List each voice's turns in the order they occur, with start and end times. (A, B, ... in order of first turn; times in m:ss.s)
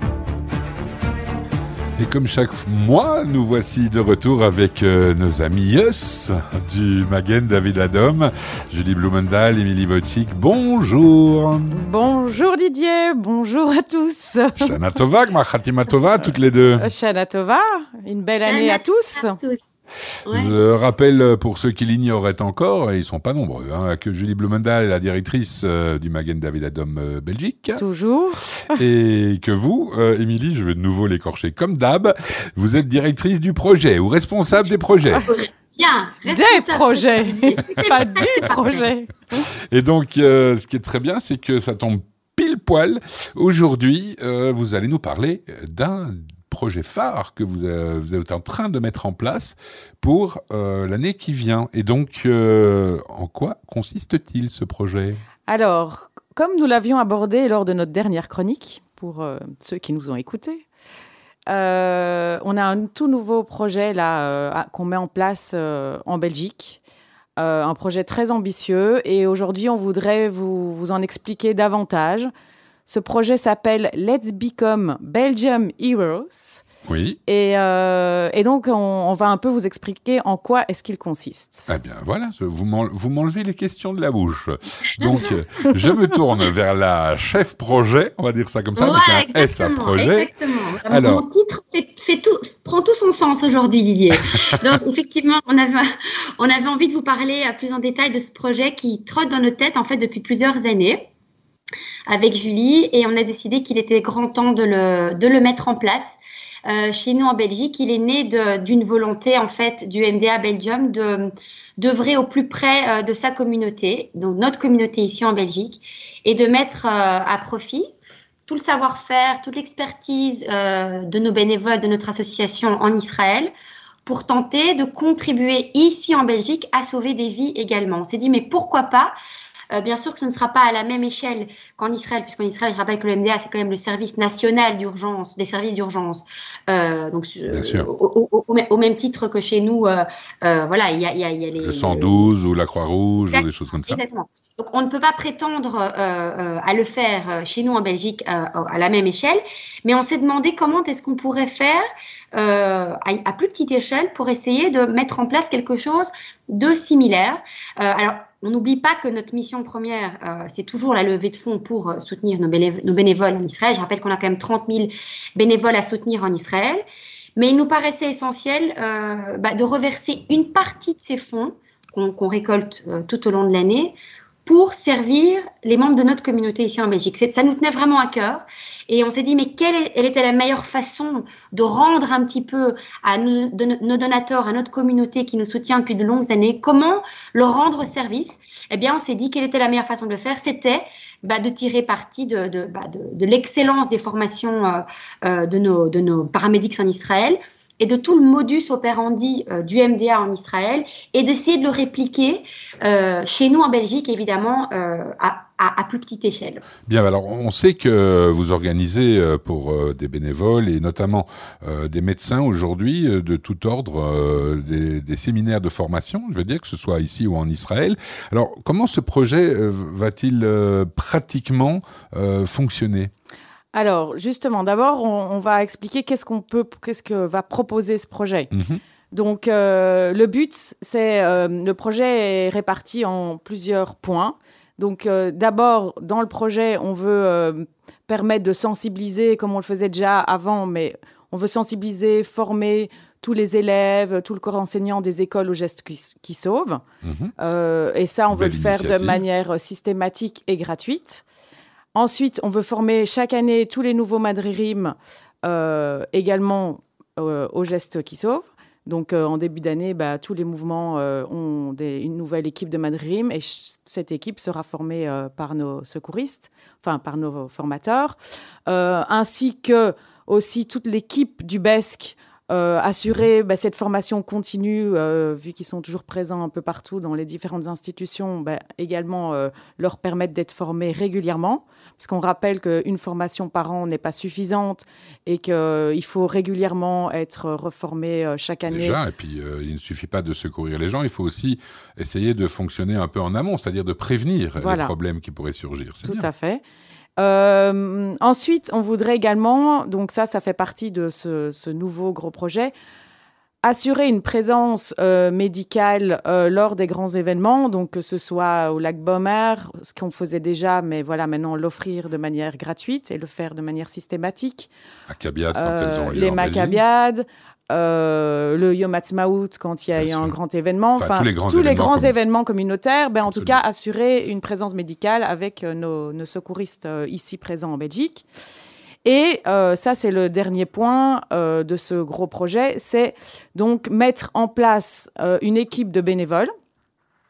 0:02.0-0:11.8 A
0:11.7-0:14.8 B
0:14.6-0:16.9 A
0:16.8-0:19.4 B
0:18.4-0:19.6 C
0:20.3-0:20.6 C
0:20.3-0:27.8 A
0:27.8-0:28.8 B
0:28.7-0:35.3 A
0:35.2-0:38.8 C
0:36.2-0:39.2 B
0:39.7-0:55.2 A
0:55.5-1:00.6 B
1:01.5-1:06.8 B
1:07.4-1:12.3 B
1:12.9-1:16.6 B
1:16.9-1:17.2 A
1:17.3-1:21.7 B
1:21.7-1:30.3 A
1:25.0-1:25.3 C
1:28.8-1:35.8 C
1:30.9-1:31.2 A
1:36.4-1:41.1 C
1:42.1-1:57.9 C
1:58.5-2:03.5 C
2:04.1-2:09.2 C
2:09.7-2:22.3 C
2:17.5-2:17.9 A
2:21.6-2:24.0 A
2:23.3-2:31.8 C
2:32.4-2:46.8 C
2:47.4-3:26.6 C
3:26.9-3:43.1 A
3:43.7-3:48.5 B
3:48.5-3:48.8 A
3:49.1-4:06.8 B
4:07.0-4:07.3 A
4:07.4-4:11.2 B
4:08.3-4:09.2 A
4:11.9-4:49.0 B
4:48.7-4:56.3 A
4:54.6-4:54.9 B
4:56.0-4:56.6 B
4:57.2-5:02.7 B
5:03.6-5:14.7 B
5:15.1-5:16.8 A
5:15.5-5:28.2 B
5:20.0-5:20.3 A
5:21.0-5:22.1 A
5:23.3-5:23.6 A
5:29.0-5:36.5 B